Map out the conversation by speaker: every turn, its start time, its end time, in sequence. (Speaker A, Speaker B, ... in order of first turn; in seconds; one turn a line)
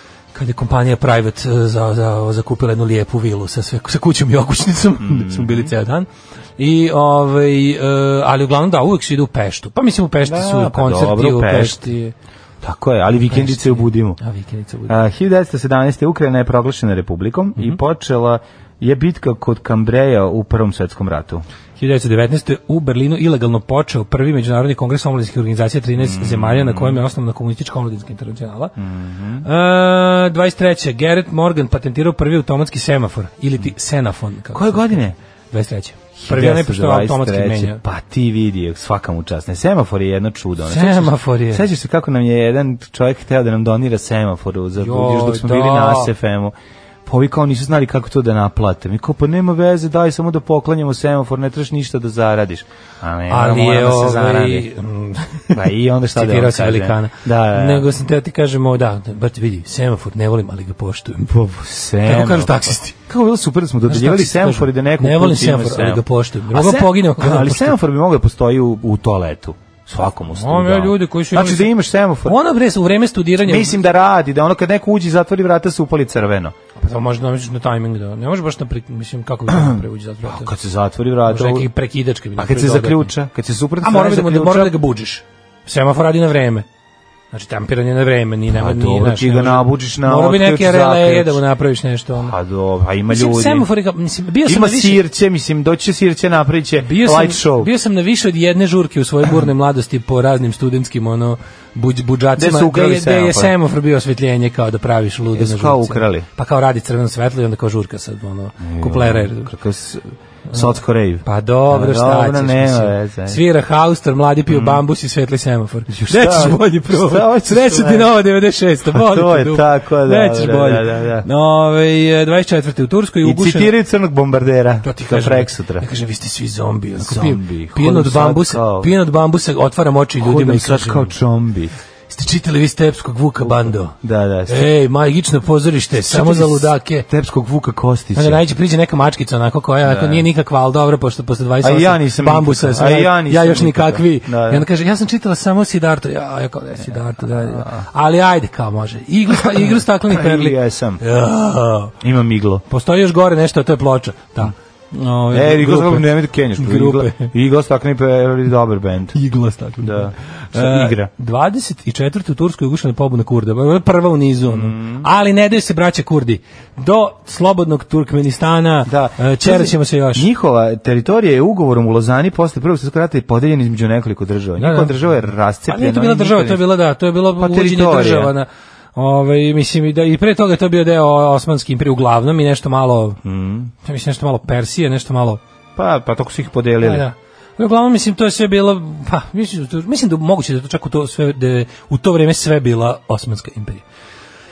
Speaker A: 0.3-12.1
Speaker B: 5.0-5.7
Speaker B: 10.2-11.9
Speaker B: 12.6-14.2
Speaker A: 13.3-15.0
Speaker B: 14.9-21.4
Speaker A: 21.8-28.8
Speaker B: 26.0-27.0
Speaker B: 28.8-29.5
Speaker A: 29.4-35.0
Speaker B: 34.5-35.2
Speaker A: 35.5-37.8
Speaker B: 36.2-54.7
Speaker A: 40.6-41.7
Speaker A: 44.8-46.1
Speaker A: 53.3-55.6
Speaker B: 55.5-57.9
Speaker A: 56.1-61.3
Speaker B: 61.3-72.4
Speaker A: 62.0-63.0
Speaker A: 63.9-67.8
Speaker A: 70.3-71.7
Speaker A: 72.2-73.9
Speaker B: 73.4-76.5
Speaker A: 76.8-80.5
Speaker B: 79.5-81.7
Speaker A: 81.3-83.1
Speaker B: 82.4-84.8
Speaker A: 83.8-86.7
Speaker A: 87.3-92.3
Speaker B: 88.5-91.4
Speaker B: 92.1-93.7
Speaker A: 93.1-95.0
Speaker B: 94.5-97.7
Speaker A: 96.8-109.5
Speaker B: 102.4-103.5
Speaker B: 105.3-106.3
Speaker B: 108.6-113.4
Speaker A: 111.2-123.7
Speaker B: 114.5-114.8
Speaker B: 115.9-118.2
Speaker B: 118.9-121.3
Speaker B: 123.2-125.9
Speaker A: 124.8-131.1
Speaker B: 127.0-128.9
Speaker B: 130.2-131.7
Speaker A: 132.1-133.9
Speaker B: 133.4-134.7
Speaker A: 134.5-137.1
Speaker B: 135.9-138.4
Speaker A: 138.2-151.9
Speaker B: 139.8-140.3
Speaker B: 141.6-144.7
Speaker B: 147.3-147.8
Speaker B: 149.4-151.0
Speaker B: 152.0-152.7
Speaker A: 152.7-157.3
Speaker B: 155.3-159.2
Speaker A: 159.2-170.3
Speaker B: 159.8-161.1
Speaker B: 164.5-165.1
Speaker B: 168.9-176.7
Speaker A: 174.6-174.9
Speaker A: 175.7-183.2
Speaker B: 177.4-178.3
Speaker B: 183.2-183.7
Speaker A: 183.8-185.4
Speaker B: 185.8-187.1
Speaker A: 186.8-193.8